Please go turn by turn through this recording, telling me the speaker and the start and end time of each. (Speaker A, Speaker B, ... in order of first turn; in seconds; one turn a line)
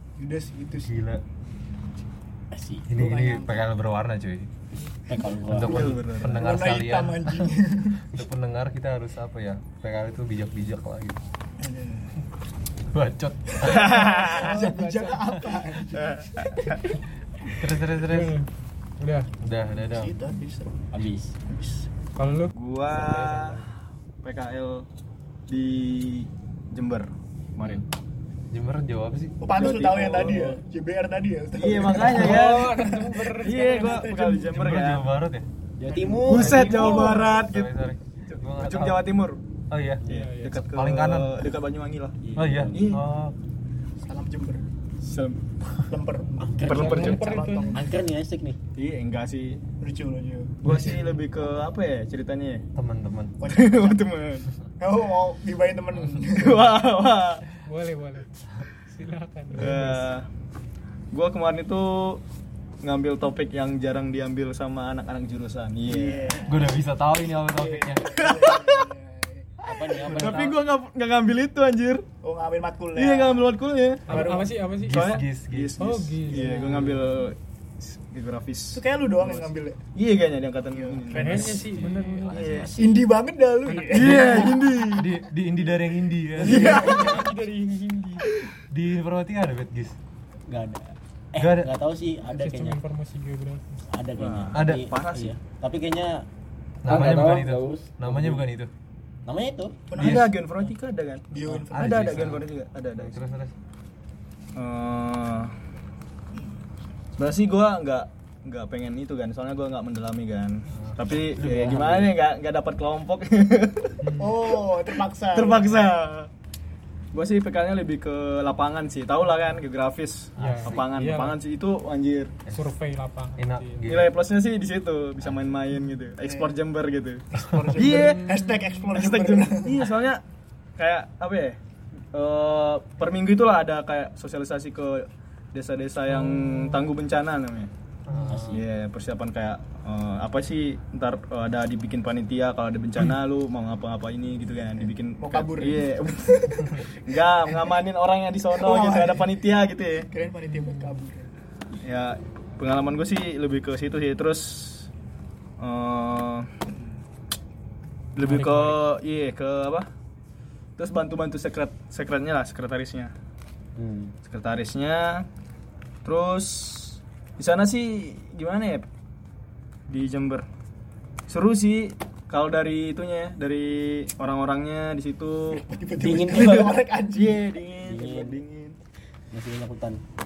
Speaker A: 0.2-1.0
Speaker B: 0.8-1.2
Speaker C: 2.5-2.9
Speaker B: 2.9-4.5
Speaker A: 2.9-3.6
Speaker C: 5.0-6.0
Speaker B: 5.4-7.5
Speaker D: 5.6-6.4
Speaker A: 5.8-8.1
Speaker B: 8.1-11.2
Speaker A: 11.6-12.1
Speaker B: 12.9-15.3
Speaker A: 13.6-16.2
Speaker D: 13.6-14.6
Speaker D: 15.9-16.8
Speaker B: 17.6-18.4
Speaker E: 18.0-18.5
Speaker E: 19.0-19.3
Speaker B: 19.4-20.1
Speaker A: 19.8-20.7
Speaker C: 20.9-21.3
Speaker A: 21.5-21.9
Speaker E: 22.1-22.5
Speaker D: 22.5-23.6
Speaker B: 22.9-23.7
Speaker D: 24.2-24.9
Speaker D: 25.5-27.8
Speaker B: 28.5-29.4
Speaker A: 29.4-34.6
Speaker D: 29.5-30.6
Speaker D: 31.6-35.1
Speaker E: 32.1-34.0
Speaker B: 34.5-35.5
Speaker C: 35.8-37.1
Speaker A: 35.9-37.4
Speaker D: 36.2-37.7
Speaker B: 36.4-39.1
Speaker D: 38.3-39.4
Speaker B: 39.7-40.0
Speaker E: 40.1-40.6
Speaker D: 40.1-43.0
Speaker B: 40.5-41.4
Speaker B: 42.4-43.3
Speaker A: 44.0-44.6
Speaker D: 45.0-45.4
Speaker A: 45.9-47.8
Speaker C: 46.4-48.6
Speaker D: 46.6-47.3
Speaker E: 46.7-47.8
Speaker D: 48.7-49.6
Speaker A: 49.8-50.6
Speaker D: 50.6-52.6
Speaker B: 50.6-51.0
Speaker B: 52.7-53.4
Speaker A: 53.4-54.0
Speaker D: 53.5-54.5
Speaker A: 54.8-56.8
Speaker D: 56.2-57.4
Speaker E: 57.6-58.3
Speaker E: 58.9-60.0
Speaker D: 59.5-60.2
Speaker D: 61.1-62.2
Speaker D: 62.8-66.4
Speaker A: 65.8-66.8
Speaker B: 66.4-68.2
Speaker A: 67.4-70.1
Speaker D: 68.2-68.8
Speaker C: 69.6-70.6
Speaker D: 70.0-72.0
Speaker B: 70.1-70.4
Speaker A: 72.2-73.5
Speaker D: 72.9-74.2
Speaker A: 74.1-74.5
Speaker E: 74.1-75.2
Speaker B: 74.1-76.0
Speaker D: 74.9-81.6
Speaker E: 75.8-77.0
Speaker A: 76.4-76.7
Speaker A: 78.7-79.8
Speaker A: 80.7-81.6
Speaker E: 81.1-82.3
Speaker B: 81.2-83.0
Speaker D: 82.3-82.9
Speaker A: 82.8-84.9
Speaker E: 83.7-84.5
Speaker D: 83.9-85.1
Speaker B: 84.9-86.9
Speaker A: 86.4-87.3
Speaker D: 86.4-87.1
Speaker E: 86.5-88.3
Speaker B: 88.7-90.0
Speaker C: 90.5-92.8
Speaker B: 91.4-91.7
Speaker E: 92.3-93.7
Speaker C: 93.9-96.2
Speaker D: 94.2-95.3
Speaker B: 94.5-94.9
Speaker B: 96.8-98.7
Speaker C: 96.8-98.5
Speaker C: 99.2-99.8
Speaker A: 99.9-100.3
Speaker D: 100.0-103.2
Speaker B: 100.0-100.3
Speaker A: 101.3-102.3
Speaker B: 101.5-103.5
Speaker D: 104.5-105.5
Speaker D: 107.2-114.0
Speaker C: 111.3-112.1
Speaker E: 114.0-114.4
Speaker A: 114.2-115.8
Speaker D: 115.3-116.3
Speaker D: 117.1-122.3
Speaker E: 120.4-121.4
Speaker B: 120.4-120.9
Speaker E: 122.5-123.8
Speaker B: 123.4-124.1
Speaker D: 123.8-128.2
Speaker A: 126.2-126.5
Speaker A: 127.3-129.9
Speaker B: 127.4-127.7
Speaker E: 127.9-128.8
Speaker D: 128.9-130.2
Speaker D: 130.8-131.6
Speaker D: 132.1-137.7
Speaker E: 136.2-136.8
Speaker B: 138.1-138.6
Speaker C: 138.3-138.6
Speaker D: 138.5-150.1
Speaker A: 144.8-146.8
Speaker A: 148.6-149.3
Speaker A: 150.1-151.3
Speaker E: 150.5-150.9
Speaker D: 151.8-154.9
Speaker D: 155.6-156.5
Speaker D: 158.2-159.9
Speaker E: 158.2-158.8
Speaker D: 160.8-163.1
Speaker C: 163.8-164.1
Speaker D: 164.2-165.2
Speaker D: 166.0-168.8
Speaker D: 169.9-170.4
Speaker D: 171.3-175.6
Speaker A: 175.5-177.4
Speaker C: 176.0-176.8
Speaker D: 177.1-178.8
Speaker C: 177.8-178.4
Speaker C: 179.3-180.0